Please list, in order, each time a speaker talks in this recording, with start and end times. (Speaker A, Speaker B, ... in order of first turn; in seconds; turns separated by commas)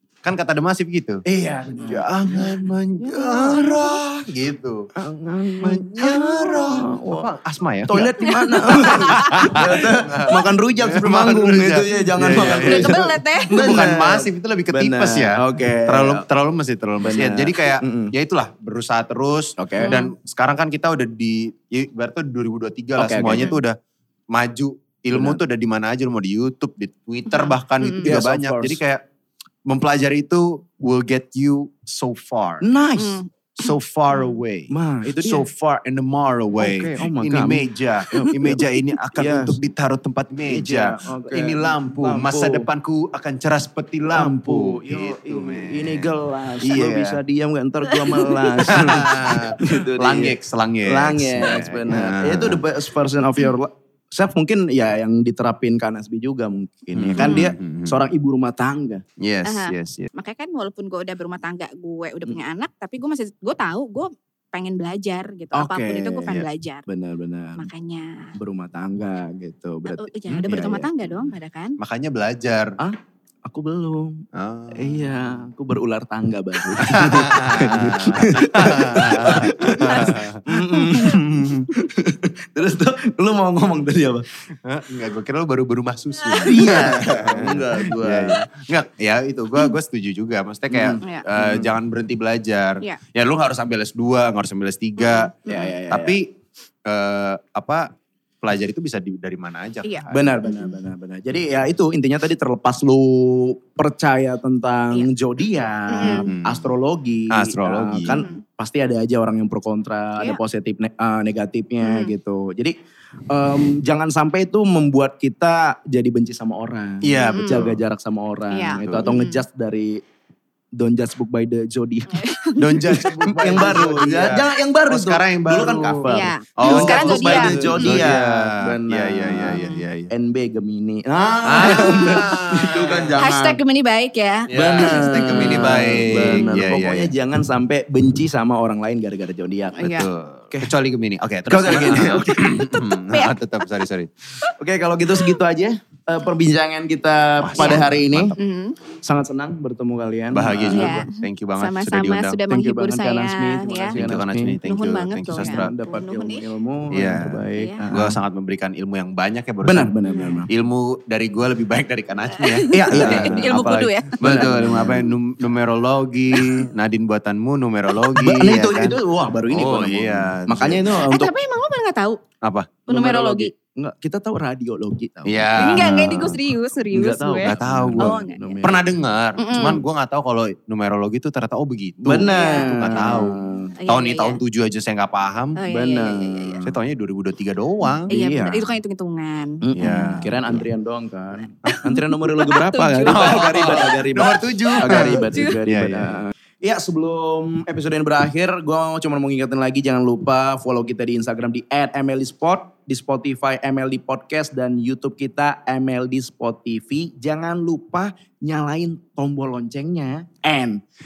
Speaker A: 0.2-1.2, Speaker B: 1.2-3.9, Speaker A: 1.8-4.8, Speaker B: 5.0-7.3, Speaker A: 5.6-23.8, Speaker B: 7.9-16.2, Speaker C: 9.0-9.3, Speaker C: 12.6-13.6, Speaker B: 17.0-18.1, Speaker B: 19.6-19.9, Speaker C: 19.8-20.1, Speaker B: 23.0-23.5, Speaker C: 23.2-23.6, Speaker A: 24.3-29.0, Speaker B: 25.1-25.4, Speaker C: 27.3-28.1, Speaker B: 28.0-28.8, Speaker A: 29.6-32.6, Speaker B: 32.6-33.2, Speaker C: 33.0-33.7, Speaker A: 33.6-47.2, Speaker B: 34.7-35.8, Speaker B: 36.6-39.6, Speaker B: 40.5-42.7, Speaker B: 44.1-59.0, Speaker A: 48.7-52.6, Speaker A: 56.9-58.0, Speaker C: 57.2-57.5, Speaker A: 59.2-60.1, Speaker C: 59.4-66.8, Speaker B: 65.5-67.7, Speaker C: 67.6-68.3, Speaker B: 68.3-70.9, Speaker C: 69.9-71.8, Speaker A: 71.8-72.7, Speaker B: 72.8-84.3, Speaker A: 74.3-75.1, Speaker A: 76.8-80.5, Speaker A: 81.1-81.7, Speaker A: 84.6-95.3, Speaker B: 86.4-88.5, Speaker B: 90.7-91.7, Speaker C: 95.0-95.7, Speaker B: 95.5-96.2, Speaker A: 95.9-96.2, Speaker A: 96.8-97.9, Speaker A: 98.4-100.4, Speaker C: 99.8-100.8, Speaker B: 100.1-112.8, Speaker C: 105.9-106.2, Speaker A: 106.0-106.7, Speaker A: 107.3-108.2, Speaker C: 108.1-108.4, Speaker C: 111.8-112.1, Speaker B: 113.3-120.0, Speaker A: 117.0-117.8, Speaker C: 117.3-117.6, Speaker C: 118.5-119.4, Speaker A: 118.8-119.1, Speaker B: 120.8-122.2, Speaker C: 122.1-123.9, Speaker A: 122.6-130.1, Speaker B: 123.3-129.6, Speaker C: 126.1-128.0, Speaker C: 129.5-129.8, Speaker B: 130.1-133.6, Speaker A: 131.4-133.1, Speaker C: 131.6-132.3, Speaker C: 133.2-136.5, Speaker A: 134.5-137.1, Speaker B: 134.5-139.8, Speaker C: 139.8-140.1, Speaker A: 139.8-144.1, Speaker B: 141.5-142.6, Speaker C: 143.1-143.3, Speaker B: 144.6-148.3, Speaker A: 147.4-148.4, Speaker C: 147.6-147.8, Speaker C: 148.4-148.8, Speaker B: 149.0-151.0, Speaker A: 150.3-152.4, Speaker C: 150.7-154.0, Speaker B: 152.5-154.6, Speaker A: 153.9-155.7, Speaker C: 154.6-156.4, Speaker B: 155.3-158.2, Speaker A: 156.9-159.9, Speaker C: 157.5-157.8, Speaker B: 159.6-160.5, Speaker C: 160.1-160.4, Speaker A: 160.5-169.0, Speaker C: 162.4-164.9, Speaker B: 162.8-163.5, Speaker B: 164.2-165.0, Speaker B: 168.2-171.3, Speaker A: 169.5-171.0, Speaker C: 171.1-172.2, Speaker A: 172.4-172.8, Speaker B: 172.9-176.3, Speaker C: 172.9-173.5, Speaker A: 175.2-176.4, Speaker C: 175.6-178.6, Speaker B: 176.9-178.8, Speaker A: 177.4-185.6, Speaker C: 179.4-179.8, Speaker B: 182.0-183.7, Speaker C: 182.3-184.4, Speaker C: 185.6-186.6, Speaker B: 185.7-186.8, Speaker A: 186.6-188.2, Speaker B: 188.1-188.7, Speaker C: 188.1-190.2, Speaker B: 189.6-210.8, Speaker A: 189.7-190.6, Speaker C: 191.7-195.5, Speaker A: 193.1-196.2